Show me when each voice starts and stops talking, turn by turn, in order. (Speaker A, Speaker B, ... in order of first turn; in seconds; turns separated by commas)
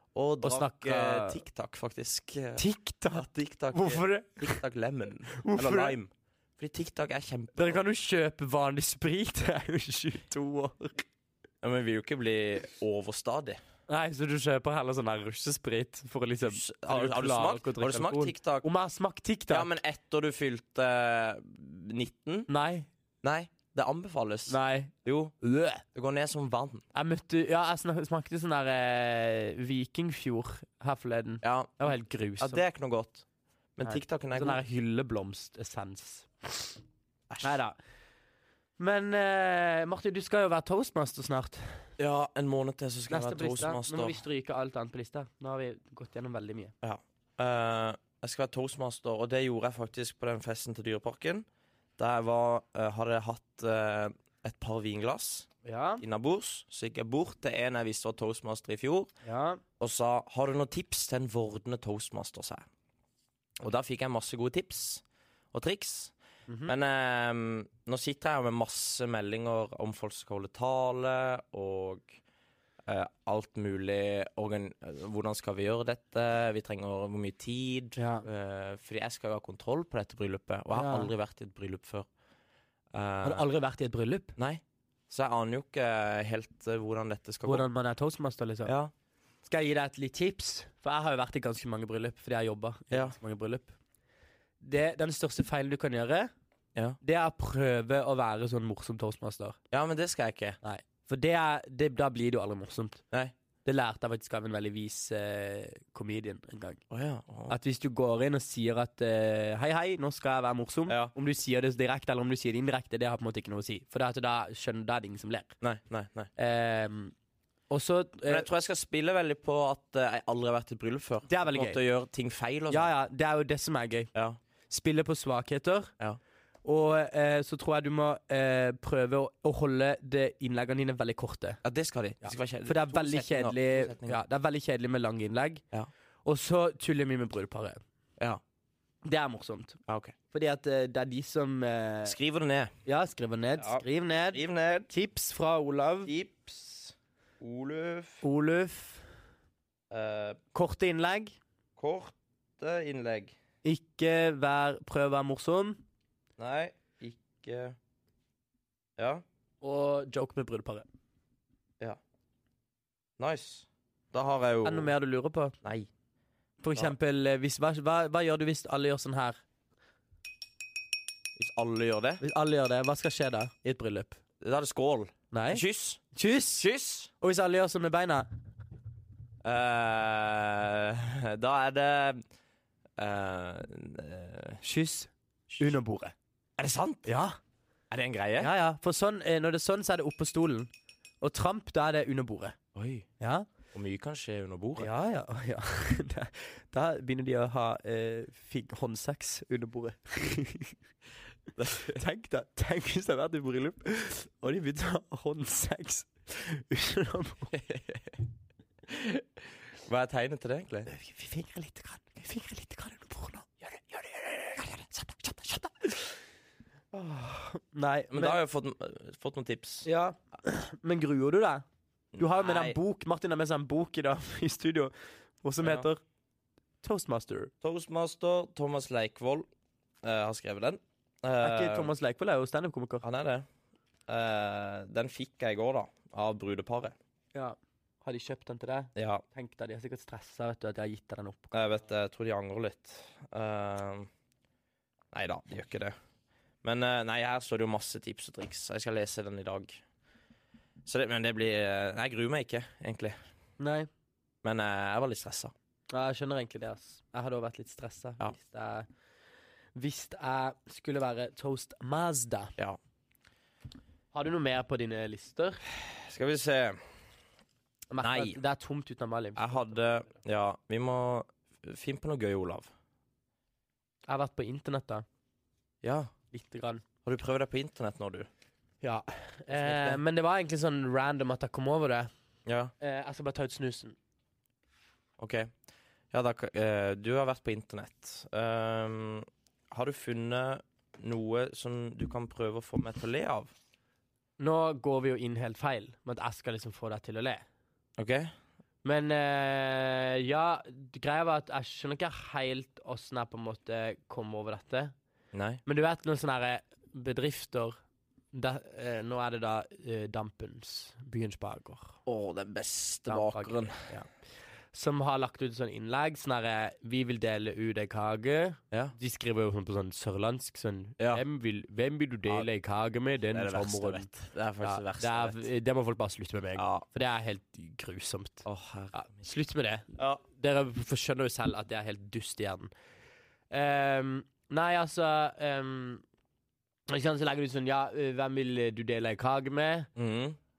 Speaker A: 0.1-7.8, Speaker B: 0.4-1.4, Speaker B: 2.6-4.6, Speaker B: 5.4-6.0, Speaker B: 7.6-11.1, Speaker A: 11.6-13.6, Speaker B: 13.9-19.7, Speaker A: 16.4-18.7, Speaker A: 19.5-22.5, Speaker B: 22.5-22.9, Speaker A: 23.2-25.4, Speaker B: 24.5-25.8, Speaker A: 25.9-26.9, Speaker B: 26.9-32.6, Speaker A: 31.4-33.2, Speaker A: 33.8-34.6, Speaker B: 33.8-36.8, Speaker A: 37.3-37.6, Speaker B: 37.4-37.8, Speaker B: 38.8-41.9, Speaker A: 42.0-44.2, Speaker B: 43.1-46.7, Speaker A: 46.8-51.5, Speaker A: 52.0-55.5, Speaker B: 55.6-56.0, Speaker A: 56.0-59.1, Speaker B: 59.2-59.6, Speaker A: 59.8-62.7, Speaker A: 63.6-66.1, Speaker B: 66.5-66.7, Speaker A: 66.7-72.2, Speaker A: 72.9-82.1, Speaker B: 78.0-78.3, Speaker B: 80.7-81.1, Speaker A: 82.9-83.4, Speaker B: 83.2-84.3, Speaker A: 84.4-87.7, Speaker B: 87.5-88.7, Speaker A: 88.7-88.9, Speaker B: 89.5-93.7, Speaker A: 92.9-93.2, Speaker B: 94.6-96.3, Speaker B: 97.0-99.6, Speaker A: 99.7-100.6, Speaker B: 100.6-103.0, Speaker B: 103.7-106.8, Speaker A: 106.9-107.5, Speaker B: 107.5-115.6, Speaker A: 110.9-111.1, Speaker A: 115.6-116.3, Speaker B: 116.4-117.1, Speaker B: 117.7-118.5, Speaker A: 118.3-122.9, Speaker B: 121.3-121.8, Speaker B: 122.7-124.1, Speaker B: 124.7-125.9, Speaker B: 126.7-131.6, Speaker A: 131.6-134.2, Speaker B: 132.2-135.6, Speaker B: 136.2-137.8, Speaker B: 139.0-139.8, Speaker A: 139.9-140.2, Speaker B: 140.3-142.2, Speaker A: 142.1-142.7, Speaker B: 142.9-146.1, Speaker A: 143.6-144.9, Speaker A: 146.1-148.2, Speaker B: 148.2-149.1, Speaker A: 149.9-150.4, Speaker B: 150.5-151.4, Speaker A: 151.8-153.4, Speaker B: 153.6-155.8, Speaker A: 156.4-157.8, Speaker A: 159.0-159.2, Speaker B: 159.6-160.9, Speaker A: 163.2-164.9, Speaker B: 164.7-165.6, Speaker A: 165.6-165.9, Speaker B: 166.6-169.4, Speaker A: 171.4-172.2, Speaker B: 172.2-174.2, Speaker A: 174.4-176.0, Speaker B: 175.3-176.7, Speaker A: 176.6-177.1, Speaker B: 177.2-178.3, Speaker A: 179.4-182.2, Speaker A: 183.0-184.6, Speaker B: 184.6-186.1, Speaker A: 186.6-187.1, Speaker B: 187.1-187.4, Speaker A: 187.9-188.5, Speaker B: 188.4-190.7, Speaker B: 191.2-192.6, Speaker A: 192.8-193.1, Speaker B: 193.2-193.5, Speaker A: 193.7-194.9, Speaker B: 194.8-200.8, Speaker A: 201.6-202.0, Speaker B: 201.9-207.5, Speaker A: 207.5-208.1, Speaker A: 209.8-210.9, Speaker B: 210.9-216.1, Speaker B: 216.9-218.4, Speaker A: 218.1-219.9, Speaker B: 219.9-221.6, Speaker A: 222.2-222.8, Speaker B: 222.2-226.0, Speaker B: 226.8-227.5, Speaker A: 227.6-229.5, Speaker A: 230.0-231.9, Speaker B: 231.4-233.1, Speaker A: 233.0-233.5, Speaker A: 234.1-237.0, Speaker B: 237.3-241.6, Speaker A: 239.0-239.2, Speaker A: 241.5-244.1, Speaker A: 245.1-246.0, Speaker A: 246.6-249.8, Speaker A: 250.8-253.2, Speaker B: 253.6-253.9, Speaker A: 254.4-255.5, Speaker B: 255.9-258.9, Speaker B: 259.8-262.5, Speaker B: 264.1-265.6, Speaker A: 265.8-266.8, Speaker B: 267.9-269.7, Speaker A: 268.0-268.4, Speaker A: 269.4-272.7, Speaker B: 274.1-275.1, Speaker A: 275.8-276.1, Speaker B: 276.3-276.8, Speaker A: 277.1-278.3, Speaker B: 278.8-282.1, Speaker A: 279.5-280.0, Speaker A: 282.5-282.7, Speaker B: 282.8-284.0, Speaker A: 285.2-285.5, Speaker A: 286.1-293.5, Speaker B: 294.4-297.4, Speaker A: 298.0-298.3, Speaker B: 298.8-304.9, Speaker A: 305.3-305.6, Speaker B: 305.7-307.8, Speaker B: 308.3-312.0, Speaker A: 312.1-313.9, Speaker B: 313.1-314.1, Speaker B: 314.7-332.7, Speaker A: 323.3-325.4, Speaker A: 326.6-326.9, Speaker A: 328.4-329.2, Speaker B: 333.5-336.0, Speaker B: 336.9-339.9, Speaker A: 340.0-340.4